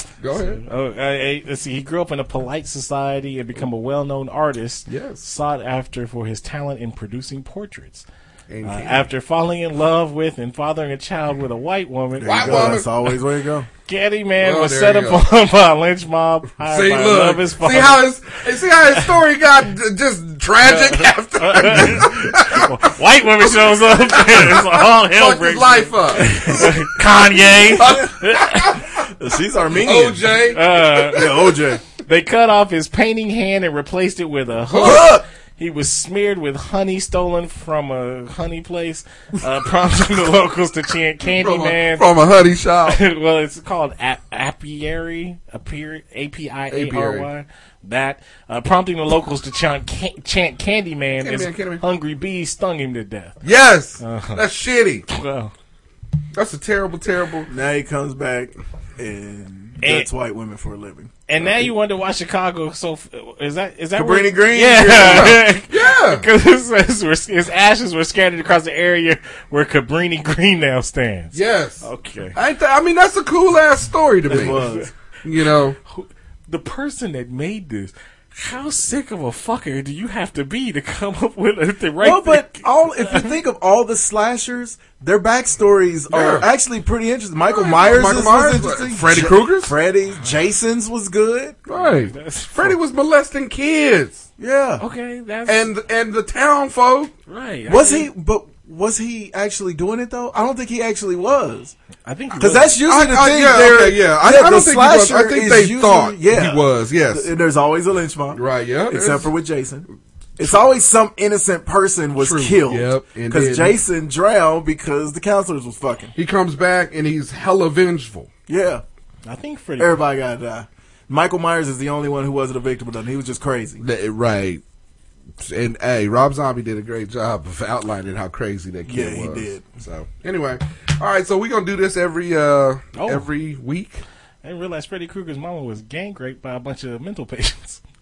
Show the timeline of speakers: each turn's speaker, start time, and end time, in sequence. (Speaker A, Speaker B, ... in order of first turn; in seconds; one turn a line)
Speaker A: 0.2-0.6
Speaker B: 0.5-8.0
Speaker A: 4.9-5.2
Speaker A: 8.5-9.1
Speaker B: 8.6-12.8
Speaker C: 12.2-13.7
Speaker A: 12.2-12.9
Speaker B: 13.8-18.1
Speaker A: 14.4-15.2
Speaker A: 16.6-22.7
Speaker B: 20.6-28.8
Speaker A: 23.6-26.8
Speaker C: 26.2-26.7
Speaker A: 27.8-29.0
Speaker C: 29.0-31.8
Speaker A: 29.8-31.4
Speaker B: 30.5-31.3
Speaker B: 32.0-42.1
Speaker A: 34.7-35.1
Speaker C: 34.8-35.2
Speaker A: 41.2-43.0
Speaker B: 42.9-53.4
Speaker A: 46.7-47.3
Speaker A: 51.2-51.8
Speaker A: 53.4-55.0
Speaker B: 54.0-54.4
Speaker B: 55.1-55.5
Speaker A: 56.3-57.5
Speaker C: 57.5-61.7
Speaker B: 59.8-60.1
Speaker B: 61.3-72.3
Speaker C: 64.0-65.4
Speaker A: 65.0-66.3
Speaker A: 71.3-74.6
Speaker C: 74.3-74.9
Speaker B: 74.3-74.9
Speaker A: 75.2-75.8
Speaker B: 75.8-83.3
Speaker C: 82.0-91.6
Speaker A: 86.1-86.5
Speaker A: 87.5-89.7
Speaker A: 91.7-94.2
Speaker B: 91.7-92.7
Speaker C: 94.4-94.8
Speaker B: 94.8-95.7
Speaker A: 95.5-97.1
Speaker B: 97.3-98.1
Speaker C: 97.7-101.7
Speaker B: 102.0-102.8
Speaker C: 102.3-109.8
Speaker A: 102.8-107.3
Speaker A: 108.3-109.3
Speaker C: 110.4-116.1
Speaker A: 112.2-113.8
Speaker A: 116.2-118.3
Speaker C: 118.5-118.8
Speaker B: 119.2-120.0
Speaker C: 119.8-123.8
Speaker A: 123.8-124.6
Speaker A: 125.4-134.0
Speaker C: 128.9-129.7
Speaker B: 133.0-133.2
Speaker B: 134.4-137.8